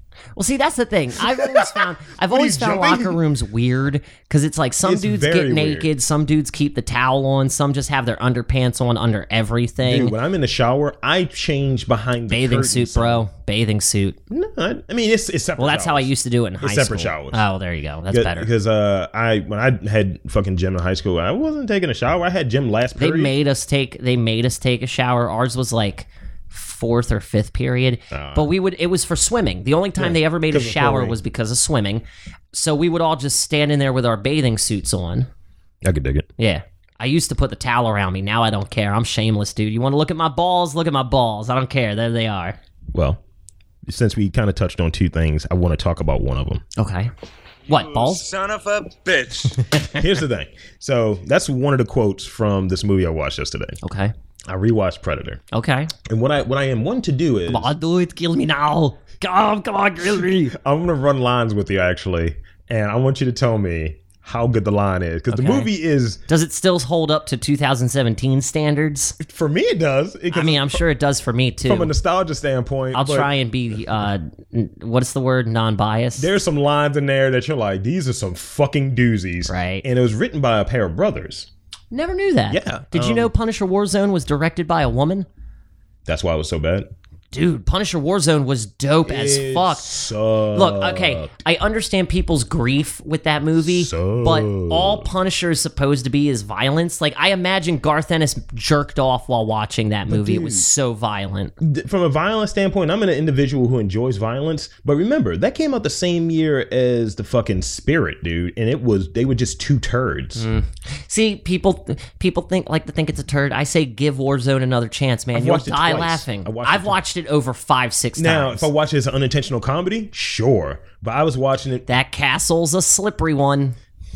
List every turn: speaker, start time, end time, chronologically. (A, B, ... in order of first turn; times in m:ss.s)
0:00.4-0:10.2 A
0:01.2-0:03.2 B
0:04.8-0:05.9 B
0:09.8-0:13.3 B
0:12.3-0:14.2 A
0:14.3-0:17.4 B
0:15.6-0:18.5 A
0:18.1-0:23.4 B
0:23.0-0:35.3 A
0:28.1-0:28.5 B
0:30.0-0:31.2 B
0:35.8-0:36.3 B
0:36.4-0:42.6 A
0:42.9-0:43.2 B
0:43.9-0:46.6 B
0:46.8-0:47.1 A
0:47.7-0:49.7 C
0:47.7-0:48.2 A
0:49.7-0:50.0 A
0:49.9-0:53.8 B
0:53.8-0:54.1 A
0:54.5-0:55.4 B
0:55.5-0:55.9 A
0:56.1-0:57.7 B
0:57.5-1:00.6 A
1:00.5-1:06.2 B
1:05.3-1:05.7 A
1:06.3-1:09.2 A
1:09.2-1:10.8 B
1:10.3-1:11.9 A
1:11.6-1:13.3 B
1:12.9-1:16.3 A
1:16.2-1:21.5 B
1:19.5-1:19.8 A
1:21.9-1:25.3 A
1:22.5-1:23.3 B
1:26.1-1:26.9 B
1:27.3-1:29.9 A
1:29.0-1:31.3 B
1:30.5-1:41.5 A
1:33.6-1:35.1 B
1:40.1-1:40.7 B
1:41.6-1:50.5 B
1:50.4-1:58.7 A
1:55.3-1:57.0 B
1:58.2-2:01.9 B
2:01.9-2:03.8 A